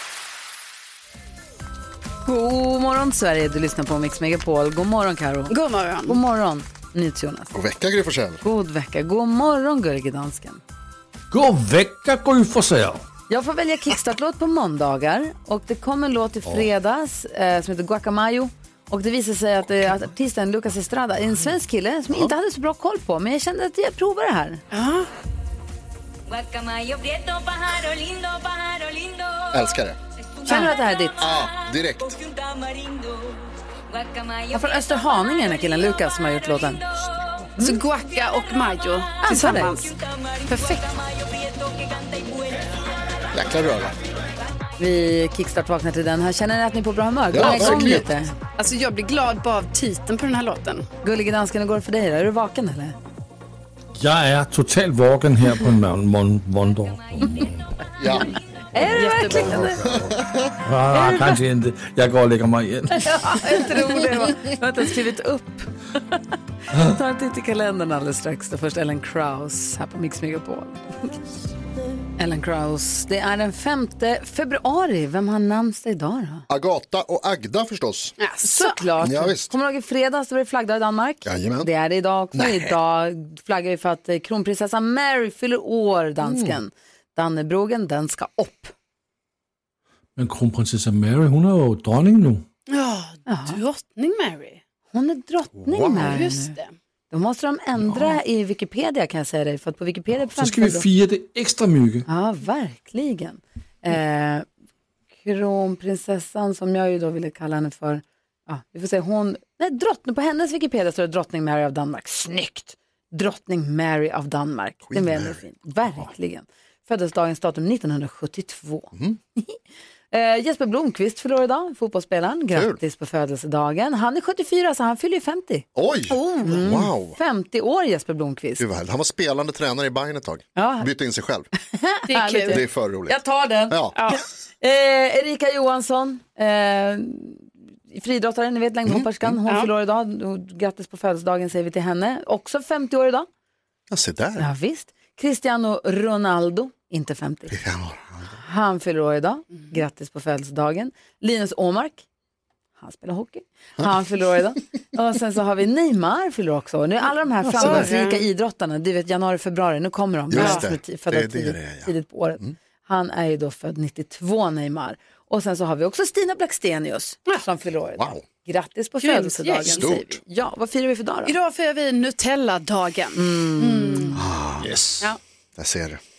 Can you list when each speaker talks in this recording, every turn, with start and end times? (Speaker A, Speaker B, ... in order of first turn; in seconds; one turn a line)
Speaker A: 2.3-5.5
Speaker B: 5.5-6.2
Speaker A: 6.1-7.5
Speaker C: 7.5-8.4
Speaker A: 8.4-10.6
Speaker D: 11.3-13.1
Speaker A: 13.3-24.6
Speaker B: 24.7-25.1
Speaker E: 26.3-29.8
Speaker C: 29.5-30.0
Speaker E: 30.4-43.2
Speaker A: 30.5-31.3
Speaker B: 30.5-30.7
Speaker C: 31.2-32.2
Speaker A: 34.5-36.8
Speaker B: 37.6-39.9
Speaker A: 39.2-39.8
Speaker B: 40.5-41.0
Speaker C: 43.3-44.0
Speaker A: 44.8-48.3
Speaker C: 47.3-48.1
Speaker B: 47.4-48.0
Speaker B: 48.6-50.9
Speaker A: 51.0-53.0
Speaker D: 54.0-57.7
Speaker E: 56.7-57.6
Speaker C: 58.0-58.3
Speaker A: 58.7-59.9
Speaker B: 58.9-59.7
Speaker C: 59.3-60.6
Speaker D: 60.6-63.6
Speaker A: 60.9-61.4
Speaker A: 63.0-66.2
Speaker A: 66.7-70.9
Speaker A: 72.2-76.5
Speaker C: 76.5-78.2
Speaker B: 78.2-78.8
Speaker A: 78.4-88.7
Speaker C: 79.0-79.5
Speaker C: 81.2-81.7
Speaker C: 82.3-82.8
Speaker C: 86.2-86.6
Speaker D: 90.2-92.4
Speaker B: 92.7-94.6
Speaker A: 93.3-93.6
Speaker A: 94.9-96.5
Speaker C: 95.5-96.3
Speaker B: 96.0-96.7
Speaker A: 97.1-100.9
Speaker D: 100.3-102.1
Speaker A: 102.1-104.5
Speaker A: 105.2-119.6
Speaker C: 114.9-115.4
Speaker A: 120.1-128.6
Speaker C: 122.5-122.8
Speaker C: 125.8-127.2
Speaker C: 128.6-131.5
Speaker A: 130.6-130.9
Speaker A: 131.6-143.3
Speaker B: 132.1-132.6
Speaker C: 132.5-133.2
Speaker C: 133.7-134.0
Speaker B: 133.9-134.2
Speaker C: 138.9-139.3
Speaker C: 143.9-144.5
Speaker A: 144.4-147.6
Speaker C: 147.5-148.4
Speaker A: 148.4-152.1
Speaker A: 152.8-171.3
Speaker C: 157.4-157.9
Speaker B: 157.6-158.3
Speaker C: 160.3-162.5
Speaker B: 160.3-160.7
Speaker C: 168.0-168.2
Speaker B: 169.0-169.9
Speaker C: 169.7-170.2
Speaker B: 171.3-174.2
Speaker A: 173.2-174.2
Speaker C: 174.2-174.7
Speaker D: 174.6-175.1
Speaker C: 175.6-176.0